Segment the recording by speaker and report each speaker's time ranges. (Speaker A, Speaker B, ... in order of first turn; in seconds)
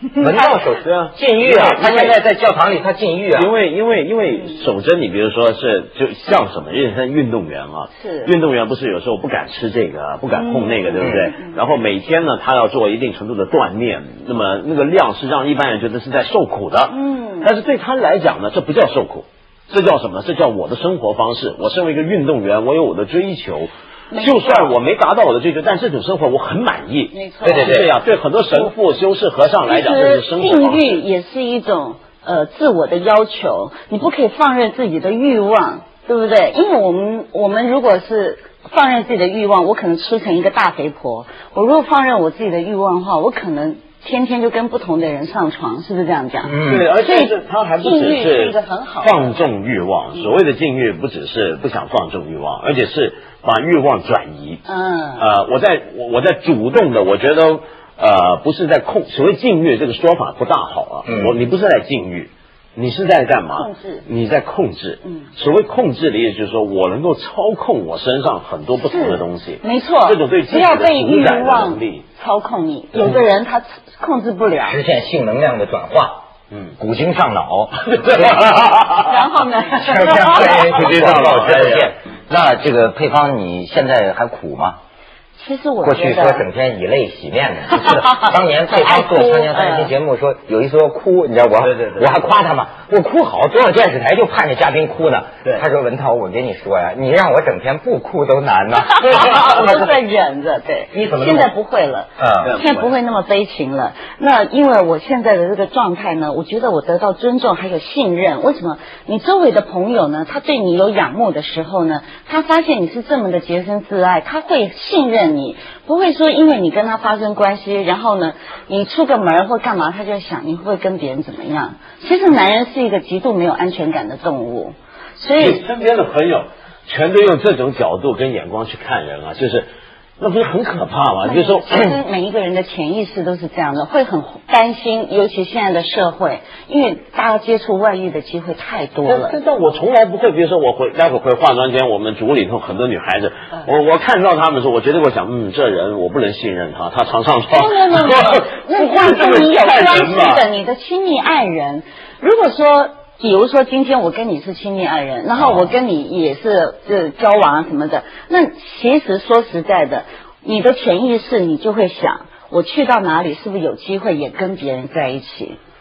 Speaker A: 0.2-3.5, 27.4-27.9, 46.5-46.9, 74.7-76.3, 76.8-78.5, 79.8-84.8, 85.8-100.0, 100.9-101.5, 102.2-102.6, 155.4-155.7
Speaker B: 0.8-2.2, 3.4-31.0, 46.6-54.6, 55.2-72.0, 77.9-79.1, 80.2-81.9, 91.6-92.2, 102.4-102.9, 125.4-131.9, 139.1-150.4
Speaker C: 8.0-8.3, 10.4-11.6, 16.9-17.5, 24.1-24.8, 27.1-27.8, 29.7-49.3, 54.7-55.3, 63.6-64.0, 68.8-74.8, 79.0-80.8, 85.4-86.5, 88.1-89.9, 98.8-125.6, 131.2-139.3, 147.5-165.6